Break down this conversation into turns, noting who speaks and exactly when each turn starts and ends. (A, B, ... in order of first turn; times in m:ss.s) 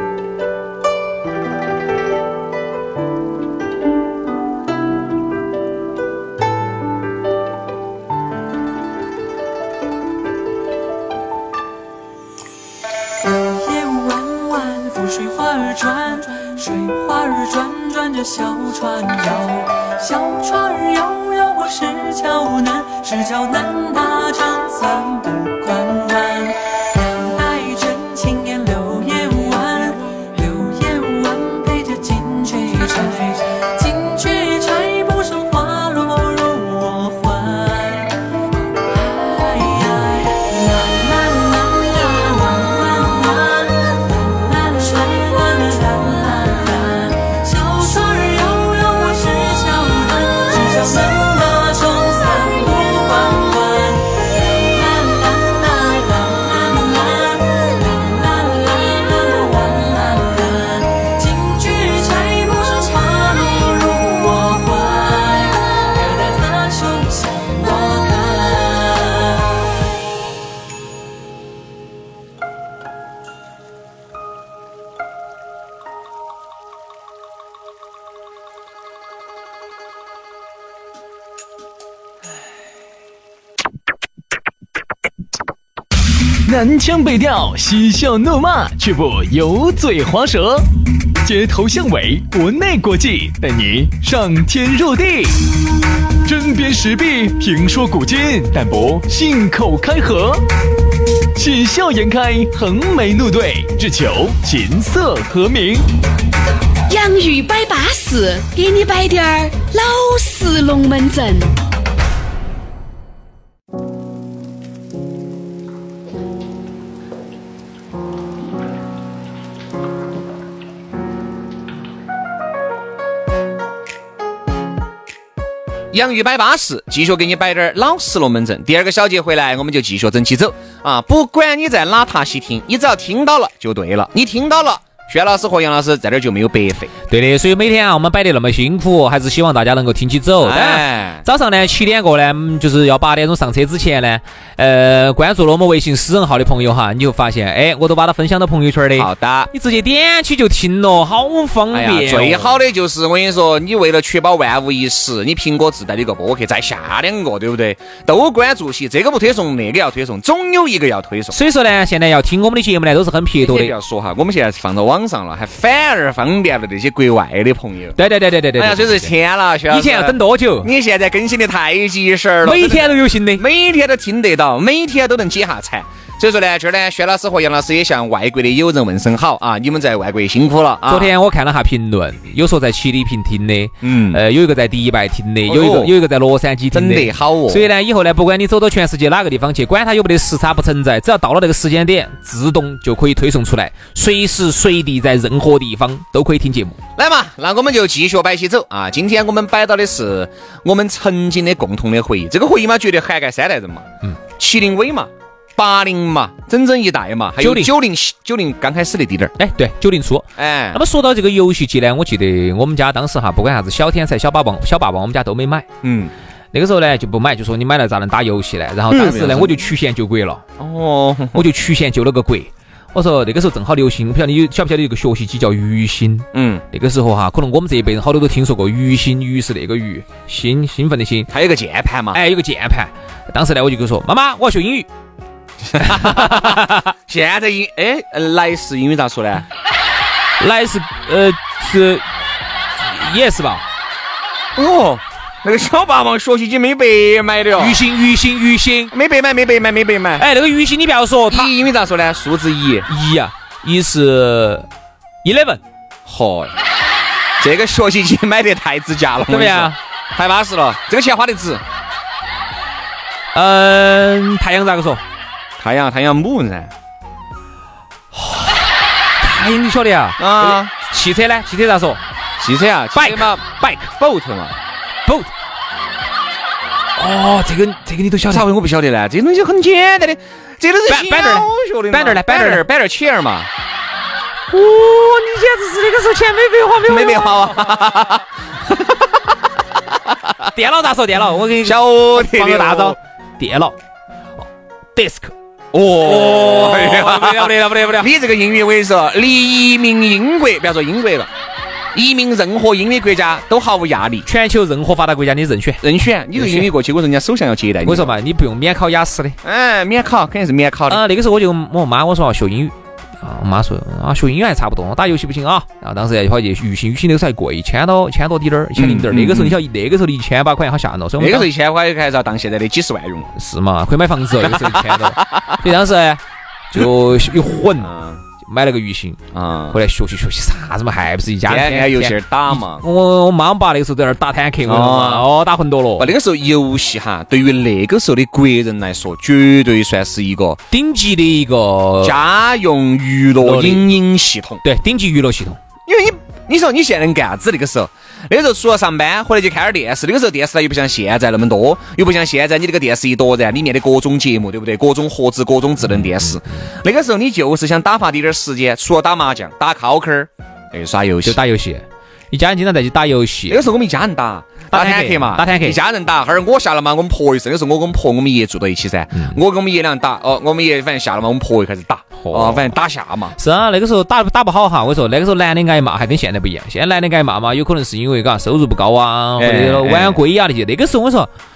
0:13.3-1:09.7 A
1:26.4-1:30.7 B
1:31.2-1:35.4 B
1:36.2-1:40.4 B
1:41.3-1:45.9 B
1:46.9-1:51.5 C
2:05.9-2:16.9 D
2:17.1-2:32.6 E
2:20.4-2:21.2 D
2:29.0-2:29.5 D
2:31.7-2:41.4 D
2:41.3-2:43.7 E
2:43.4-2:48.0 D
2:48.0-2:49.1 E
2:48.6-3:01.1 D
2:49.7-2:50.7 E
2:52.4-2:53.4 E
3:00.9-3:16.8 E
3:03.8-3:04.2 D
3:05.4-3:05.9 D
3:06.7-3:07.7 D
3:17.0-3:23.8 D
3:24.4-3:29.3 D
3:27.4-3:27.7 E
3:29.4-3:35.7 E
3:30.4-3:30.8 D
3:35.8-3:36.1 D
3:36.5-3:40.4 E
3:38.9-3:39.6 D
3:40.6-3:41.5 D
3:41.3-3:51.3 E
3:46.3-3:46.6 D
3:51.3-3:52.2 D
3:52.1-3:54.9 E
3:55.7-3:59.5 D
3:55.8-3:56.9 E
4:00.4-4:02.0 E
4:02.8-4:03.6 E
4:04.5-4:07.8 D
4:07.6-4:08.9 E
4:08.9-4:10.2 D
4:10.2-4:11.5 E
4:11.3-4:12.9 D
4:12.9-4:14.7 E
4:15.2-4:15.6 E
4:16.0-4:16.5 D
4:17.4-4:21.6 D
4:19.3-4:19.8 E
4:23.3-4:25.0 E
4:25.6-4:26.7 D
4:28.1-4:28.5 E
4:29.2-4:32.0 E
4:30.2-4:30.7 D
4:32.4-4:34.6 D
4:32.9-4:33.8 E
4:37.0-4:38.4 E
4:38.3-4:43.5 D
4:40.9-4:42.6 E
4:44.5-4:47.7 E
4:46.8-4:49.3 D
4:50.5-4:53.8 E
4:51.6-4:53.0 D
4:54.9-4:58.1 E
4:55.7-5:01.3 D
5:01.9-5:04.3 D
5:04.2-5:06.7 E
5:05.8-5:08.1 D
5:07.8-5:09.4 E
5:09.4-5:11.0 D
5:10.9-5:21.5 E
5:18.8-5:19.6 D
5:21.2-5:23.3 D
5:23.4-5:29.2 E
5:24.4-5:25.6 D
5:27.8-5:28.2 D
5:29.3-5:29.8 D
5:29.7-5:36.1 E
5:31.5-5:32.8 D
5:34.6-5:35.3 D
5:36.0-5:40.6 D
5:40.7-5:42.2 E
5:42.0-5:44.6 D
5:43.4-5:43.9 E
5:44.6-5:45.6 E
5:45.9-6:01.4 D
5:55.9-5:56.3 E
6:01.2-6:03.6 E
6:03.5-6:13.3 D
6:04.7-6:05.8 E
6:09.1-6:09.4 E
6:12.2-6:12.7 E
6:13.4-6:21.3 E
6:19.4-6:20.2 D